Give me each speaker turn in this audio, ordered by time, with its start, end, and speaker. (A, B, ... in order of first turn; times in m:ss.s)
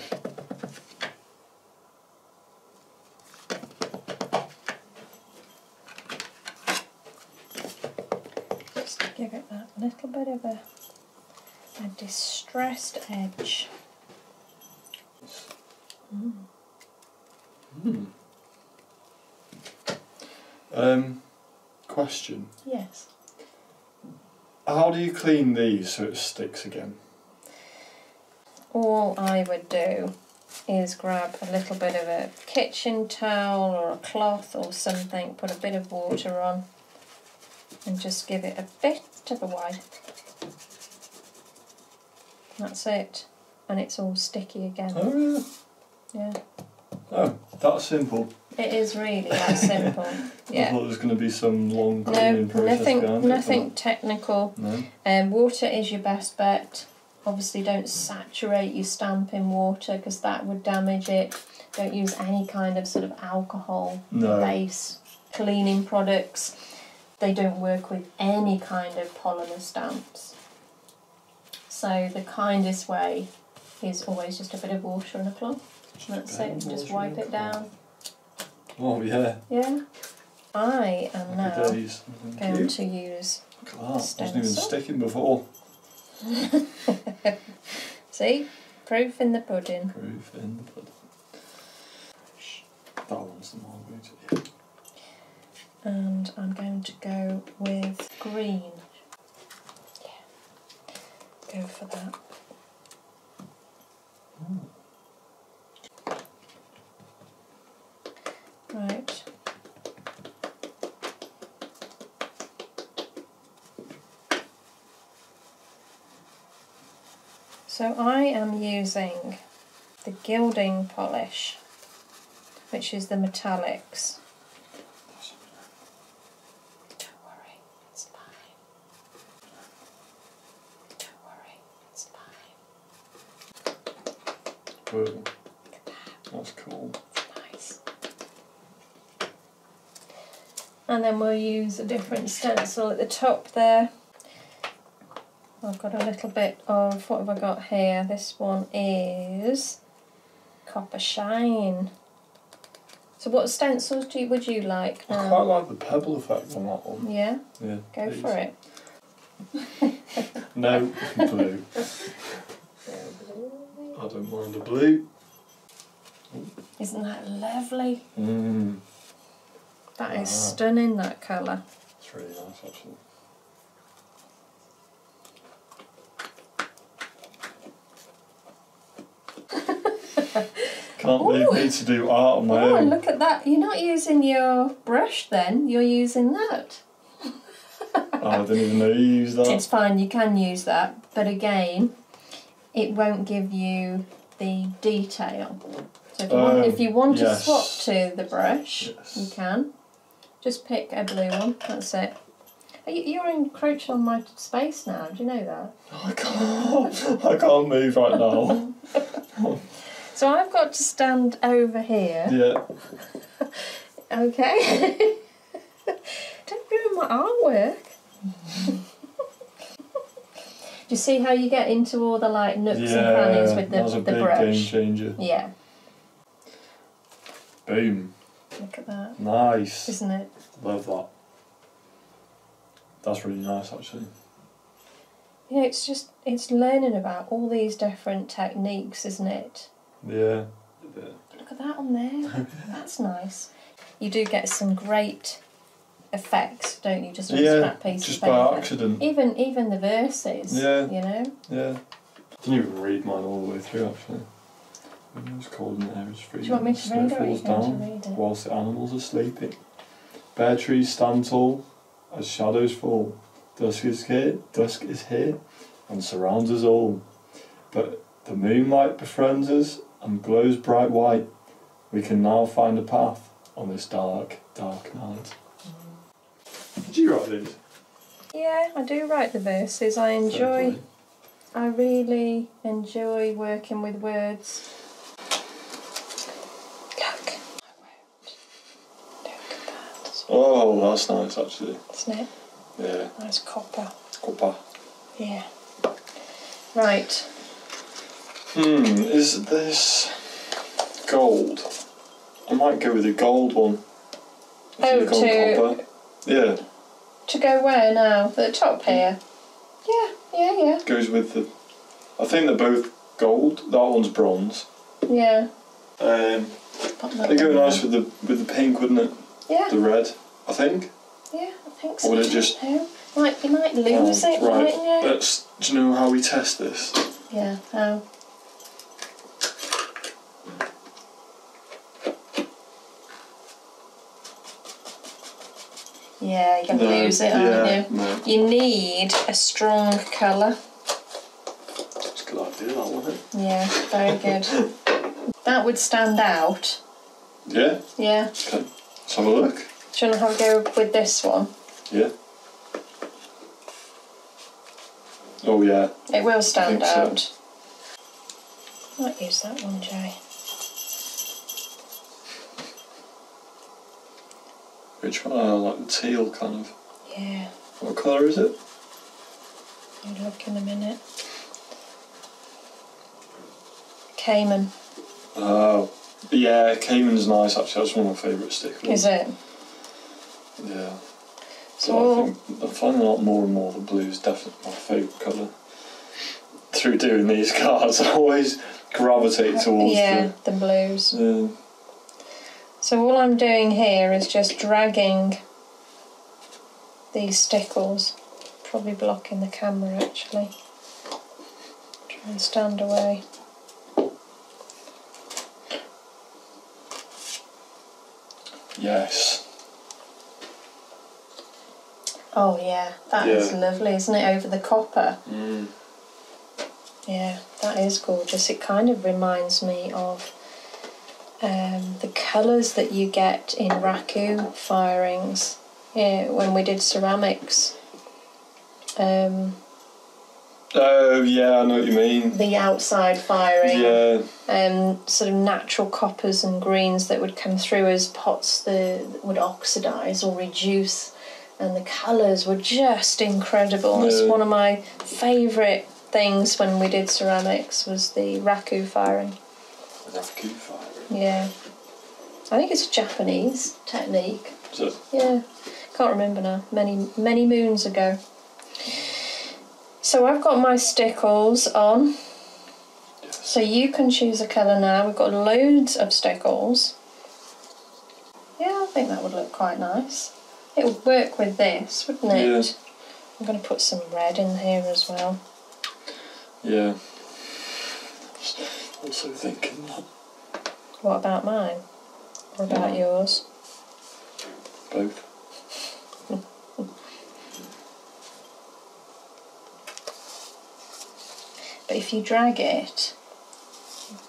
0:08.8-0:10.6 A
0:11.8-0:13.7 A
0:15.2-0:15.5 B
0:16.1-0:16.4 A
0:17.7-0:18.1 B
0:20.7-0:21.3 B
0:21.8-0:22.5 B
0:22.6-0:23.1 A
0:24.6-0:27.0 B
0:28.7-0:30.1 A
0:30.7-0:36.6 A
0:37.8-0:39.8 A
0:42.6-0:45.1 A
0:44.9-0:45.4 B
0:47.1-0:48.3 B
0:48.6-0:50.8 A
0:49.3-0:53.7 B
0:52.0-1:06.5 A
0:54.6-0:54.9 B
1:04.1-1:04.6 B
1:07.2-1:10.4 A
1:11.7-1:13.3 A
1:13.8-1:17.7 A
1:16.0-1:17.6 B
1:18.8-1:19.4 B
1:19.5-1:19.8 A
1:20.5-1:21.8 A
1:21.3-1:22.7 B
1:22.4-1:24.7 A
1:23.6-1:25.5 B
1:26.2-1:27.3 A
1:28.1-1:29.9 A
1:29.9-1:30.9 B
1:33.1-1:34.4 B
1:35.8-1:38.8 A
1:41.5-1:42.2 A
1:44.4-1:44.7 B
1:48.7-1:49.2 A
1:57.7-1:59.4 A
2:00.0-2:01.6 A
2:02.7-2:04.2 A
2:07.0-2:08.5 A
2:11.0-2:12.5 A
2:14.9-2:15.3 B
2:16.3-2:17.0 B
2:17.2-2:17.8 A
2:20.9-2:23.9 A
2:25.6-2:29.8 A
2:30.6-2:31.9 A
2:33.2-2:35.4 A
2:35.1-2:37.1 B
2:37.0-2:38.5 A
2:37.6-2:38.4 B
2:39.8-2:40.3 A
2:40.4-2:41.9 B
2:40.9-2:41.4 A
2:42.9-2:44.0 A
2:43.9-2:45.0 B
2:46.8-2:48.0 A
2:48.2-2:48.8 B
2:50.0-2:51.6 A
2:50.1-2:50.6 B
2:52.0-2:53.0 B
2:59.6-3:00.6 A
3:01.0-3:02.9 B
3:01.2-3:01.7 A
3:02.5-3:06.8 A
3:07.9-3:08.4 A
3:08.2-3:09.6 B
3:09.4-3:11.9 A
3:12.7-3:15.6 A
3:16.1-3:19.7 A
3:16.3-3:17.9 B
3:18.8-3:19.3 B
3:20.4-3:22.1 A
3:22.8-3:25.7 A
3:25.9-3:29.6 B
3:29.9-3:32.4 A
3:32.2-3:32.6 B
3:33.4-3:35.2 A
3:35.9-3:38.0 A
3:38.5-3:38.8 A
3:40.9-3:45.5 A
3:42.7-3:45.2 B
3:47.6-3:48.1 B
3:48.6-3:49.2 A
3:49.2-3:49.9 B
3:49.8-3:50.3 A
3:50.6-3:51.1 B
3:53.0-3:54.1 B
3:55.5-3:59.7 A
4:00.0-4:01.2 B
4:01.3-4:05.4 A
4:06.1-4:11.3 A
4:07.3-4:09.0 B
4:10.5-4:10.9 B
4:11.4-4:11.8 B
4:12.4-4:14.3 B
4:15.1-4:19.6 B
4:16.4-4:18.2 A
4:20.3-4:27.0 B
4:27.7-4:31.3 B
4:31.9-4:35.9 B
4:36.8-4:37.6 B
4:38.3-4:40.8 A
4:40.3-4:40.8 B
4:41.5-4:44.6 A
4:47.0-4:48.3 A
4:49.2-4:50.3 A
4:50.3-4:51.8 B
4:51.9-4:52.3 A
4:52.8-4:53.1 B
4:53.1-4:53.9 A
4:54.2-4:54.6 B
4:55.2-4:55.4 A
4:56.7-4:57.3 A
4:58.5-5:00.4 B
5:01.0-5:01.7 B
5:02.5-5:03.8 B
5:04.8-5:06.6 B
5:04.8-5:05.8 A
5:07.3-5:09.2 A
5:09.8-5:10.8 A
5:10.8-5:11.5 B
5:12.2-5:14.7 B
5:15.0-5:15.5 A
5:16.0-5:16.6 B
5:17.0-5:17.8 A
5:17.2-5:20.9 B
5:19.5-5:19.7 A
5:21.3-5:25.2 A
5:22.0-5:22.6 B
5:23.9-5:27.0 B
5:27.3-5:28.0 A
5:36.2-5:40.6 A
5:36.7-5:38.2 B
5:42.1-5:43.2 B
5:43.3-5:44.6 A
5:43.8-5:44.7 B
5:45.4-5:46.8 A
5:47.4-5:47.8 B
5:48.0-5:48.3 A
5:48.4-5:49.7 B
5:49.9-5:51.5 A
5:55.4-5:55.9 B
5:56.1-5:57.3 A
5:56.5-5:57.2 B
5:59.0-6:00.2 A
6:05.0-6:06.7 B
6:07.1-6:07.5 A
6:07.8-6:08.5 B
6:10.0-6:11.0 A
6:14.1-6:14.7 A
6:15.3-6:19.1 B
6:18.8-6:19.4 A
6:20.6-6:21.0 B
6:21.8-6:22.3 A
6:21.8-6:25.5 B
6:26.7-6:30.3 B
6:29.5-6:31.1 A
6:31.1-6:31.6 B
6:32.8-6:35.4 A
6:37.1-6:40.5 A
6:42.1-6:43.2 A
6:48.8-6:49.4 B
6:52.3-6:55.2 A
6:53.2-6:53.6 B
6:55.2-6:55.7 B
6:57.1-7:00.3 A
7:01.4-7:07.7 A
7:09.0-7:09.6 A
7:10.7-7:12.4 B
7:12.3-7:29.4 A
7:13.6-7:14.3 B
7:23.9-7:24.4 B
7:30.0-7:31.1 B
7:31.1-7:31.5 A
7:32.5-7:34.6 A
7:34.7-7:35.0 B
7:35.1-7:38.2 A
7:38.8-7:39.2 B
7:40.0-7:42.2 A
7:43.4-7:46.9 A
7:48.6-7:52.7 A
7:52.3-7:52.7 B
7:53.4-7:55.4 A
7:56.6-8:00.0 B
8:01.0-8:01.8 A
8:02.6-8:03.4 A
8:02.7-8:03.0 B
8:04.9-8:05.3 B
8:11.9-8:13.2 A